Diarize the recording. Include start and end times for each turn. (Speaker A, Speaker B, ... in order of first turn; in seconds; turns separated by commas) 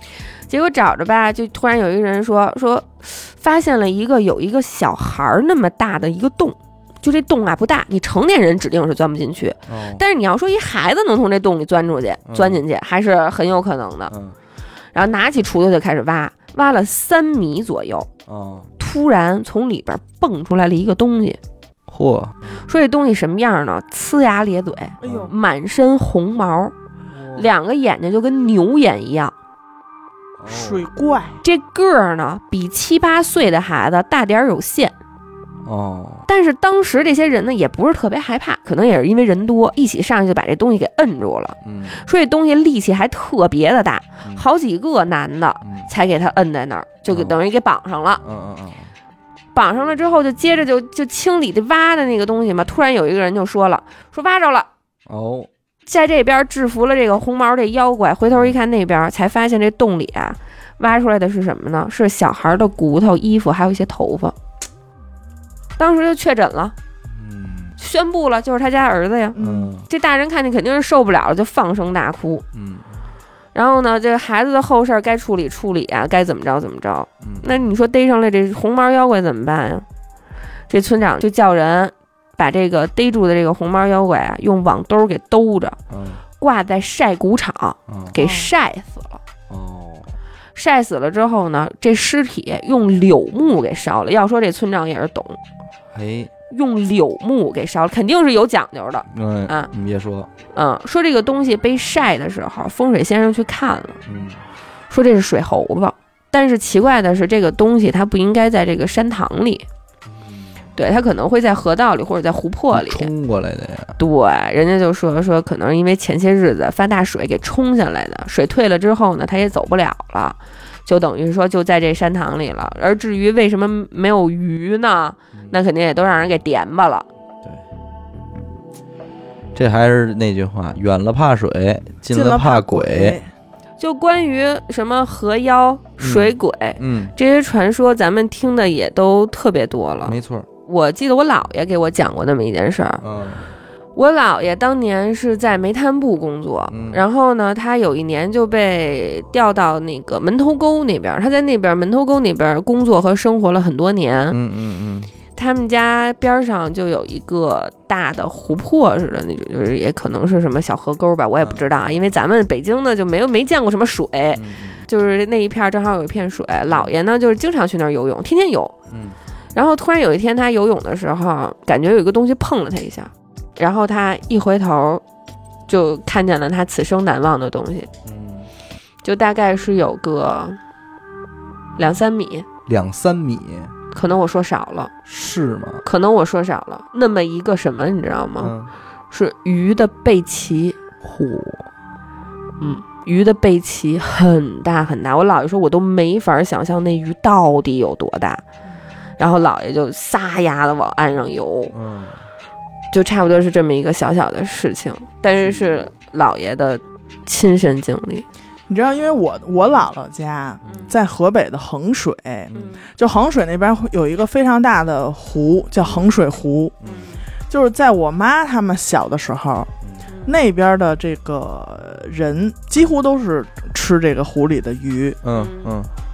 Speaker A: 0.5-14.1, Speaker B: 9.7-10.0, Speaker B: 12.3-12.6, Speaker B: 14.1-14.4, Speaker A: 14.9-18.1, Speaker B: 18.3-18.7, Speaker A: 18.8-21.4, Speaker B: 21.9-22.6, Speaker A: 22.5-26.7, Speaker C: 25.0-25.3, Speaker B: 25.0-25.3, Speaker B: 27.1-27.5, Speaker A: 27.3-29.3, Speaker B: 30.4-30.9, Speaker C: 30.5-31.4, Speaker A: 31.4-35.0, Speaker B: 35.6-36.3, Speaker A: 36.3-48.2, Speaker B: 41.6-42.0, Speaker B: 45.6-45.9, Speaker B: 47.1-47.4, Speaker B: 48.2-48.9, Speaker A: 49.5-54.7, Speaker B: 55.1-55.5, Speaker A: 55.9-64.3, Speaker B: 58.3-58.5, Speaker A: 65.8-66.8, Speaker B: 67.1-67.8, Speaker A: 67.8-69.4, Speaker C: 69.4-69.7, Speaker B: 69.4-69.9, Speaker A: 69.9-72.5, Speaker B: 72.5-73.0, Speaker A: 73.5-79.9, Speaker B: 77.2-77.6, Speaker A: 80.7-85.8, Speaker B: 85.9-86.2, Speaker A: 86.4-89.2, Speaker B: 87.9-88.2, Speaker C: 88.2-88.5, Speaker B: 89.5-90.2, Speaker A: 90.5-95.4, Speaker B: 95.9-96.3, Speaker A: 96.5-99.7, Speaker B: 99.1-100.3, Speaker A: 100.5-104.0, Speaker B: 104.1-104.4, Speaker A: 104.9-109.7, Speaker B: 110.1-110.6, Speaker A: 110.8-113.1, Speaker B: 112.7-114.0, Speaker A: 114.0-127.1, Speaker B: 129.6-133.2, Speaker C: 132.1-133.3, Speaker A: 133.8-143.0, Speaker B: 136.0-137.1, Speaker B: 140.1-140.5, Speaker B: 143.0-143.5, Speaker A: 143.9-154.4, Speaker B: 146.7-147.0, Speaker B: 154.3-155.1, Speaker A: 155.4-168.8, Speaker B: 161.4-161.7, Speaker B: 164.3-164.8, Speaker B: 168.9-169.2, Speaker A: 169.5-175.0, Speaker A: 175.7-177.9, Speaker B: 178.1-178.5, Speaker A: 179.0-180.6, Speaker A: 181.8-182.5, Speaker B: 182.7-183.7, Speaker A: 183.9-184.9, Speaker B: 185.1-185.8, Speaker A: 185.8-188.5, Speaker B: 188.4-188.7, Speaker A: 189.1-190.8, Speaker B: 191.0-191.7, Speaker A: 192.6-198.4, Speaker A: 199.2-201.7, Speaker B: 201.7-202.2, Speaker A: 202.9-208.2, Speaker C: 208.7-216.7, Speaker A: 210.7-210.9, Speaker A: 212.5-212.9, Speaker B: 215.8-216.2, Speaker B: 216.8-217.1, Speaker A: 216.8-217.2, Speaker C: 217.5-219.7, Speaker B: 219.8-220.1, Speaker A: 220.1-220.4, Speaker C: 220.3-225.2, Speaker B: 225.2-225.9, Speaker A: 225.3-225.8